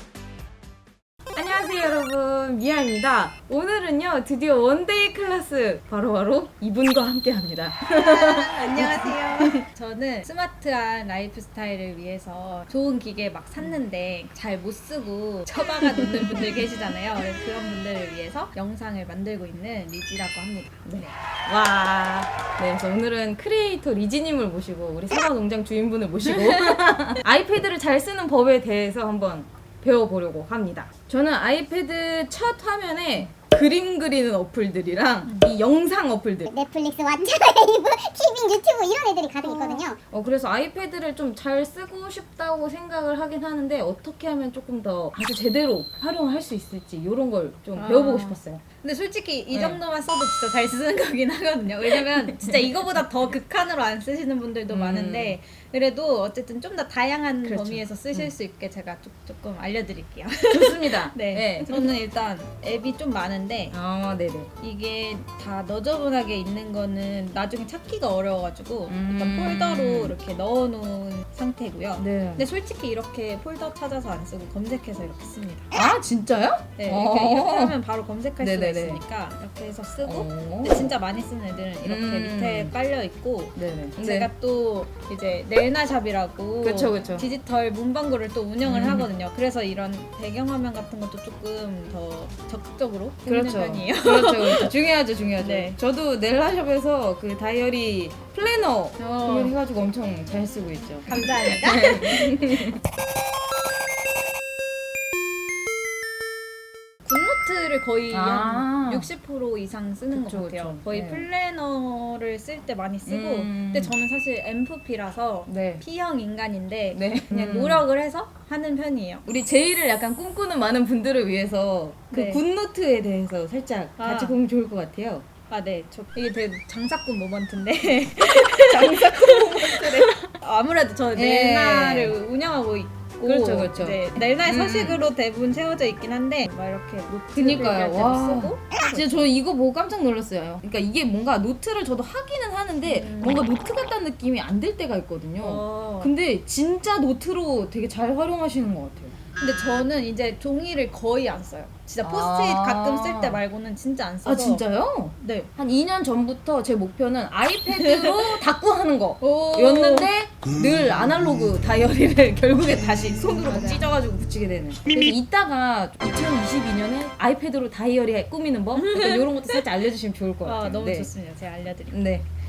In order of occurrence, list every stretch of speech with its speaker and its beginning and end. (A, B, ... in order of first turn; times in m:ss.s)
0:01.3-0:09.6 A
0:08.0-0:21.1 B
0:15.8-0:16.7 A
0:20.9-0:36.5 A
0:26.3-0:26.8 B
0:36.5-0:40.0 C
0:40.1-0:48.6 A
0:47.8-1:03.8 B
0:49.5-0:49.8 A
0:51.9-0:52.7 A
0:54.7-0:55.4 A
0:57.4-0:58.3 A
1:00.5-1:01.9 A
1:03.7-1:04.5 A
1:04.6-1:15.7 B
1:08.9-1:10.2 A
1:12.0-1:12.5 A
1:15.7-1:17.8 A
1:16.8-1:34.7 B
1:18.4-1:19.0 A
1:20.0-1:20.9 A
1:21.8-1:22.8 A
1:23.6-1:24.3 A
1:26.6-1:27.3 A
1:28.6-1:29.1 A
1:33.3-1:42.8 A
1:35.4-1:35.8 B
1:39.0-1:39.6 B
1:41.1-1:42.6 B
1:47.0-1:59.3 B
1:48.1-1:49.1 A
1:50.1-1:51.3 A
1:53.1-1:54.0 A
1:55.5-1:55.8 A
1:56.9-1:57.8 A
1:59.3-2:05.2 A
2:02.1-2:02.4 B
2:04.0-2:04.4 B
2:05.5-2:19.2 B
2:08.7-2:10.2 A
2:11.2-2:12.2 A
2:13.2-2:15.0 A
2:17.3-2:29.1 A
2:22.8-2:23.4 B
2:25.4-2:26.1 B
2:29.4-2:34.6 B
2:32.0-2:33.4 A
2:34.2-2:51.1 A
2:35.2-2:35.5 B
2:37.7-2:38.4 B
2:39.2-2:40.1 B
2:43.4-2:43.8 B
2:48.8-2:49.6 B
2:50.4-2:52.0 B
2:51.9-2:52.3 A